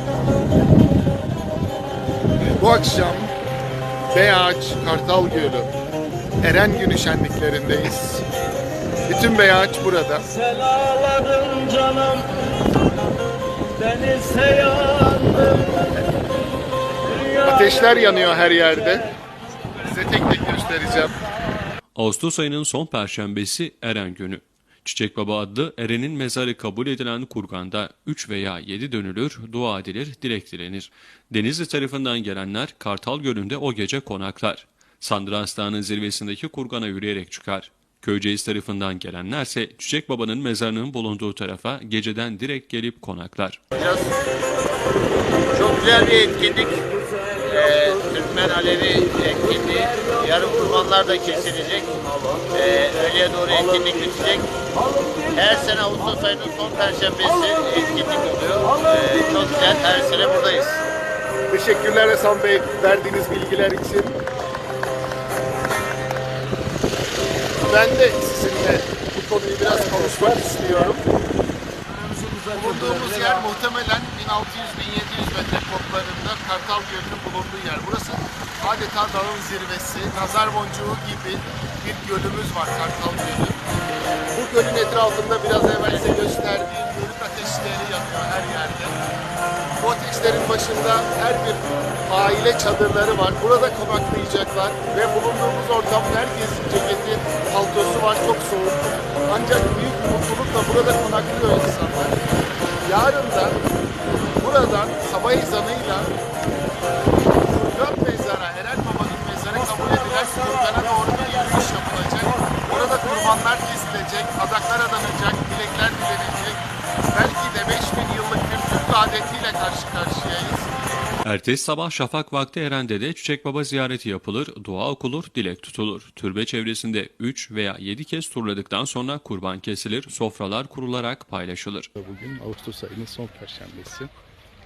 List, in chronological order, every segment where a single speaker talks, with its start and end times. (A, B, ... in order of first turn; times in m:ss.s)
0:02.6-0:03.3 A
0:04.1-0:05.7 A
0:06.4-0:08.2 A
0:09.1-0:10.3 A
0:10.8-0:12.2 B
0:13.9-0:14.5 B
0:14.9-0:15.6 A
0:17.4-0:19.0 A
0:19.8-0:21.2 A
0:21.9-0:43.6 C
0:43.7-0:44.1 D
0:45.5-0:52.0 D
0:52.5-0:54.5 D
0:55.3-1:00.8 D
1:01.5-1:04.2 A
1:07.6-1:11.0 A
1:12.4-1:23.6 A
1:24.3-1:29.0 A
1:29.8-1:42.2 A
1:42.8-1:43.6 A
1:44.4-1:46.1 A
1:47.5-2:00.7 A
2:01.2-2:11.9 C
2:12.0-2:14.1 E